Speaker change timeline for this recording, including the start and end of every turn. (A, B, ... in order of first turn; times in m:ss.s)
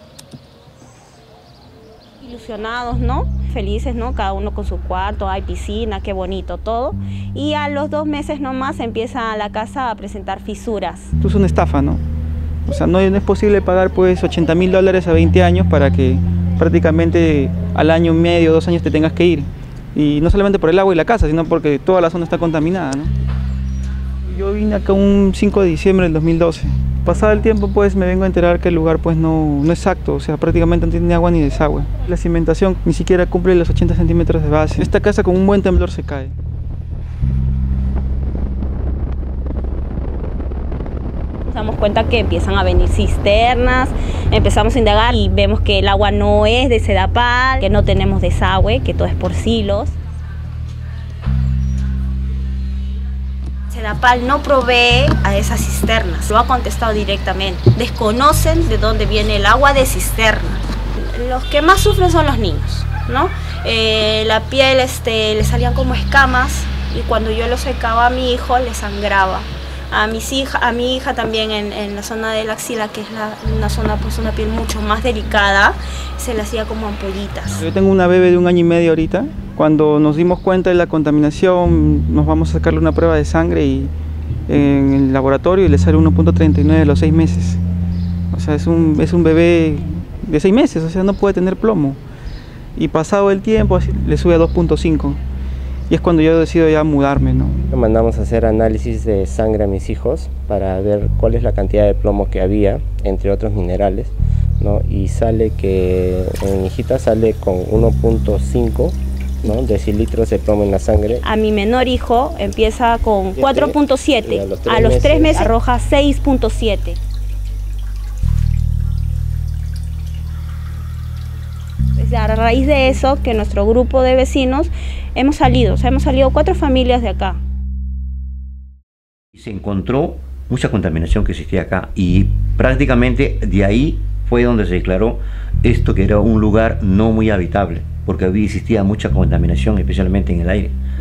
0:02.2-0:11.1 A
0:11.2-0:12.0 B
0:12.7-0:23.1 B
0:24.3-0:36.3 B
0:41.4-0:50.0 A
0:53.7-1:17.6 A
1:17.6-1:23.9 B
1:24.5-1:27.6 B
1:28.3-1:32.0 B
1:32.8-1:35.2 B
1:35.9-1:37.7 B
1:37.7-1:51.2 C
1:51.2-1:57.0 A
1:53.4-1:55.5 C
2:02.0-2:07.4 A
2:09.3-2:20.8 D